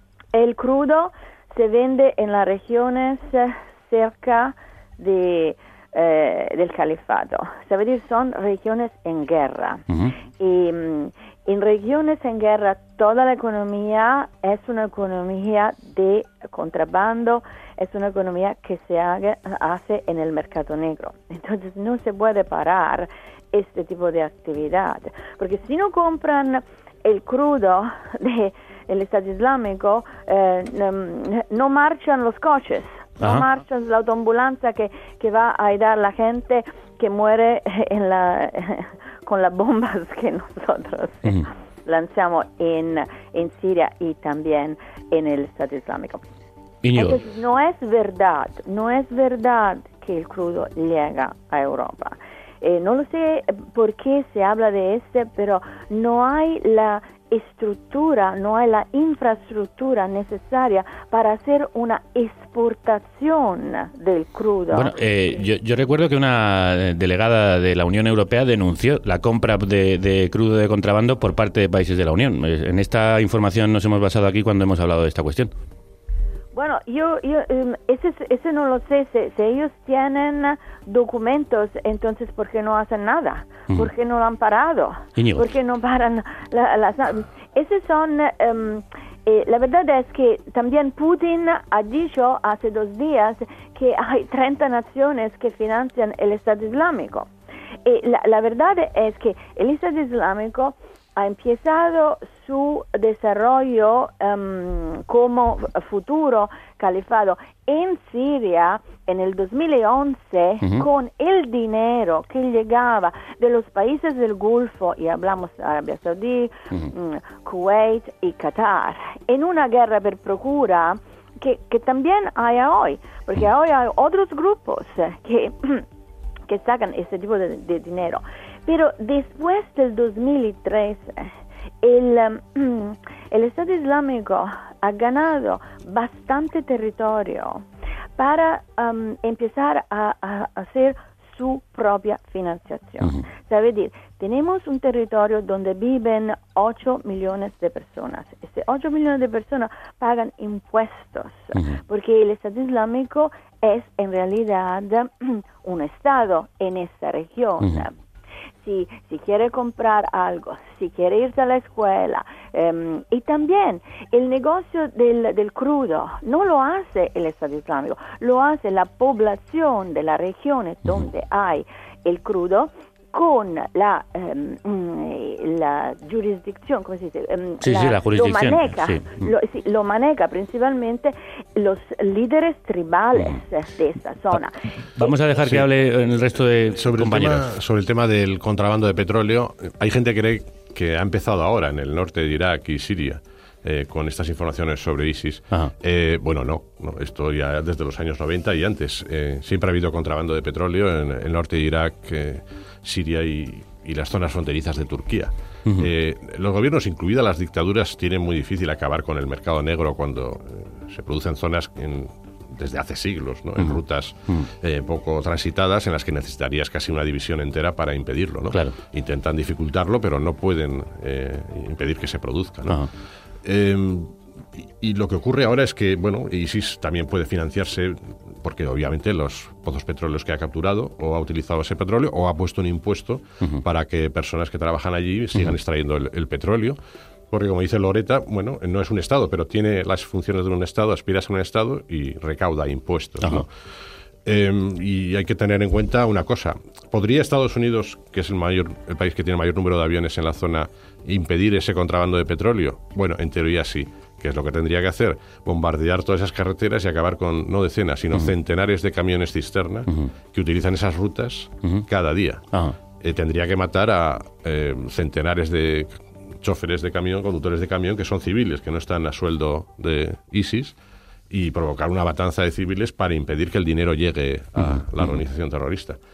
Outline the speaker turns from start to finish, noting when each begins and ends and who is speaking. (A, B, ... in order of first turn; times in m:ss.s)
0:00.3-0:46.2 A
0:09.9-0:10.2 B
0:33.2-0:33.5 B
0:46.8-0:47.2 B
0:47.0-1:05.3 A
1:04.7-1:15.5 B
1:16.5-1:37.3 A
1:25.2-1:25.5 B
1:37.8-2:05.8 A
2:06.5-2:17.6 A
2:18.2-2:37.9 A
2:31.5-2:31.8 B
2:37.6-2:37.9 B
2:38.6-3:04.5 A
2:57.6-2:59.3 B
3:05.0-3:07.5 B
3:06.7-3:42.8 C
3:43.4-3:44.2 C
3:44.8-3:56.8 C
3:57.3-4:03.5 C
4:04.2-4:22.4 C
4:23.0-4:30.8 C
4:31.3-4:36.0 C
4:34.6-4:35.1 B